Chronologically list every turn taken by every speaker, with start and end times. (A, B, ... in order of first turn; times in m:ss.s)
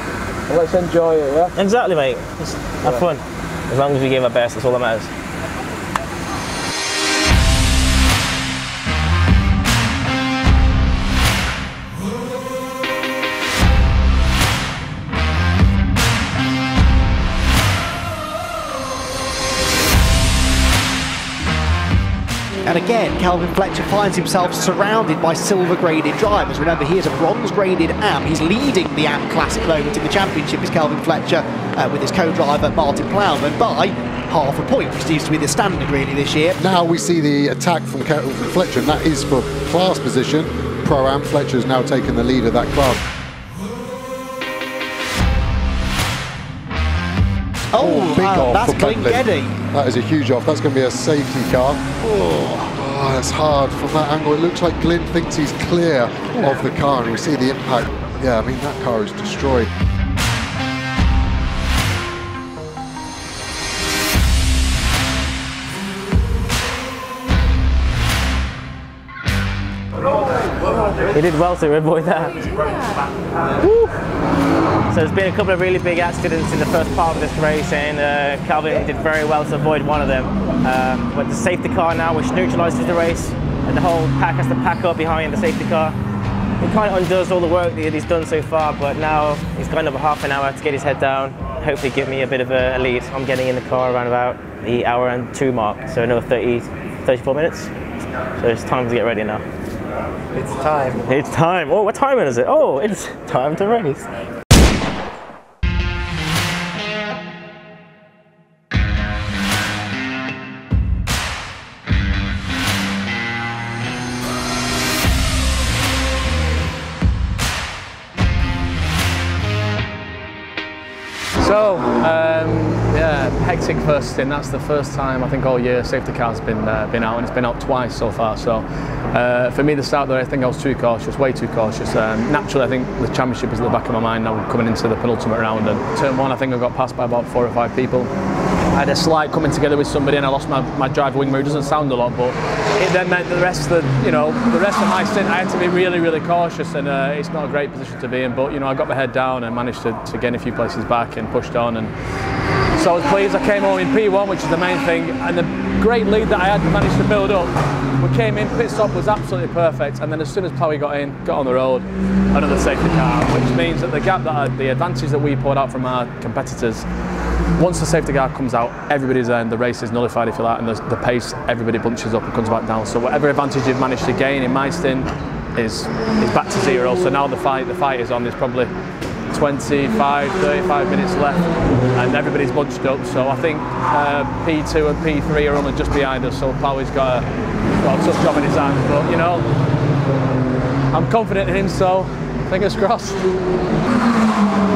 0:00.5-0:01.6 A
0:01.6-0:05.1 B
0:22.7-0:36.6 C
0:36.6-0:43.0 D
0:47.7-0:49.6 C
0:47.8-0:51.9 D
0:52.0-0:52.6 C
0:52.7-0:59.7 D
1:11.1-1:12.5 B
1:14.9-1:26.0 B
1:26.6-1:37.7 B
1:38.4-1:39.4 B
1:40.4-1:41.0 A
1:41.0-1:44.1 B
2:01.4-2:18.1 A
2:18.7-2:31.9 A
2:32.7-2:46.9 A
2:47.6-2:58.7 A
2:59.3-3:07.3 A
3:07.8-3:09.5 A
3:10.9-3:13.3 A